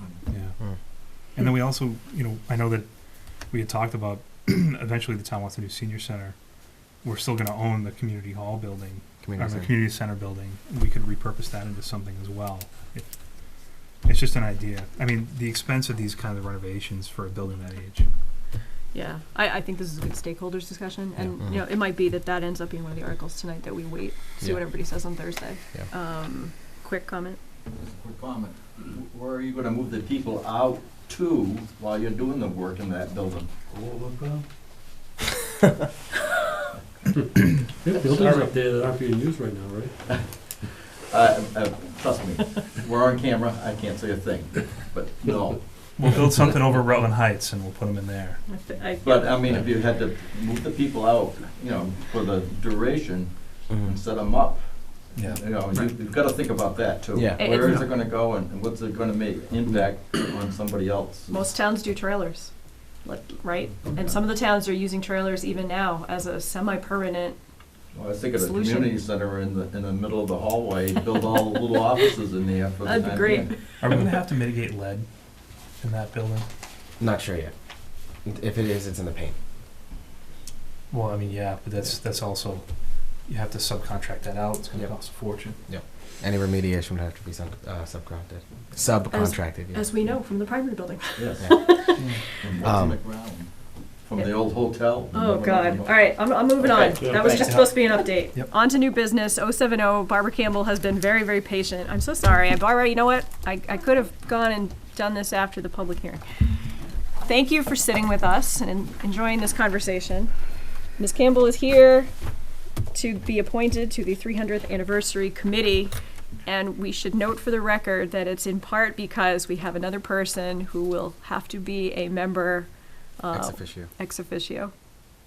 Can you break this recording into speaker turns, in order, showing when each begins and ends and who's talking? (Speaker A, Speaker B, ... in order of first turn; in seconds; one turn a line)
Speaker A: 0.3-0.6
Speaker A: 1.3-2.9
Speaker A: 3.5-6.3
Speaker A: 7.0-18.1
Speaker B: 9.2-9.7
Speaker C: 18.9-27.4
Speaker B: 21.4-21.6
Speaker B: 24.4-24.9
Speaker D: 27.7-33.5
Speaker E: 33.8-34.4
Speaker E: 37.8-40.1
Speaker D: 41.1-45.7
Speaker A: 46.0-48.4
Speaker C: 48.5-49.4
Speaker D: 48.9-61.5
Speaker A: 55.1-55.9
Speaker B: 57.1-57.4
Speaker C: 57.4-57.8
Speaker A: 57.5-57.9
Speaker C: 61.3-67.4
Speaker D: 63.8-64.2
Speaker D: 67.9-73.6
Speaker C: 68.3-69.0
Speaker C: 72.8-73.6
Speaker A: 73.8-75.1
Speaker A: 75.8-76.5
Speaker B: 77.0-77.5
Speaker B: 78.2-79.3
Speaker A: 80.9-82.6
Speaker A: 83.2-85.6
Speaker B: 85.7-89.9
Speaker C: 89.1-92.3
Speaker D: 91.2-93.5
Speaker A: 92.0-92.2
Speaker B: 92.6-93.0
Speaker D: 94.0-97.7
Speaker C: 94.1-94.6
Speaker C: 95.1-106.2
Speaker E: 97.0-97.3
Speaker A: 97.2-98.5
Speaker C: 107.2-110.3
Speaker C: 111.0-112.1
Speaker C: 112.9-115.9
Speaker C: 116.4-124.7
Speaker B: 123.3-123.9